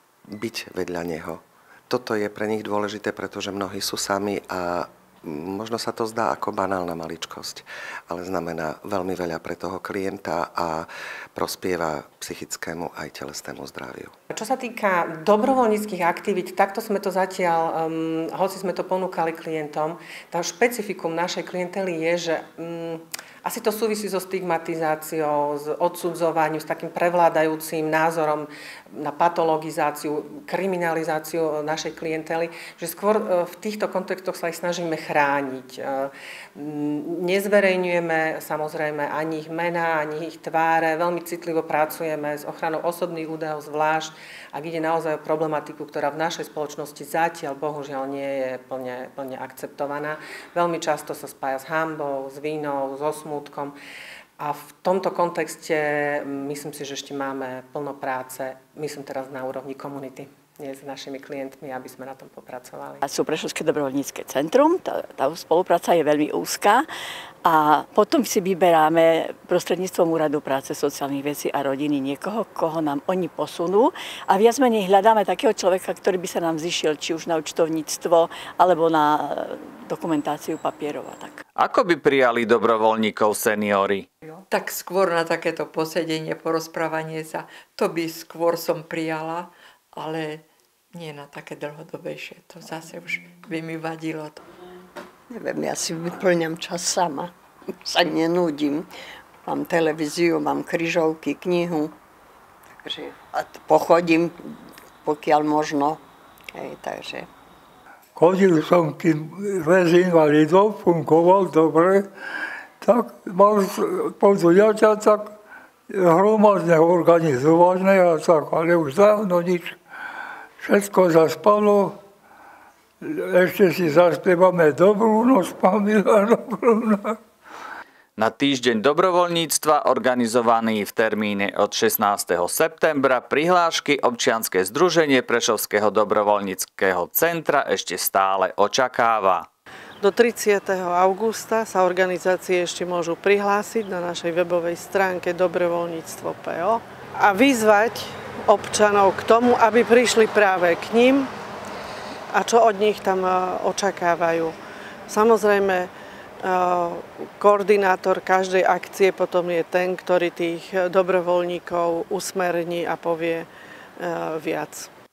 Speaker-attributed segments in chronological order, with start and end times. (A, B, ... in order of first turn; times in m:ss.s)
0:00.3-0:14.1 A
0:14.3-0:53.8 B
0:54.4-1:03.0 B
1:03.0-1:06.9 C
1:07.4-1:21.4 C
1:21.6-1:24.1 D
1:24.3-1:34.4 E
1:35.3-1:38.9 F
1:39.4-1:42.0 F
1:42.8-1:46.0 F
1:46.5-1:47.3 F
1:48.2-1:52.1 G
1:52.8-1:55.3 G
1:55.9-1:59.8 G
2:00.6-2:02.0 G
2:03.0-2:07.2 G
2:08.2-2:19.5 D
2:20.0-2:31.3 H
2:32.3-2:34.6 H
2:35.1-2:35.9 H
2:36.4-2:43.5 H
2:44.0-2:44.9 H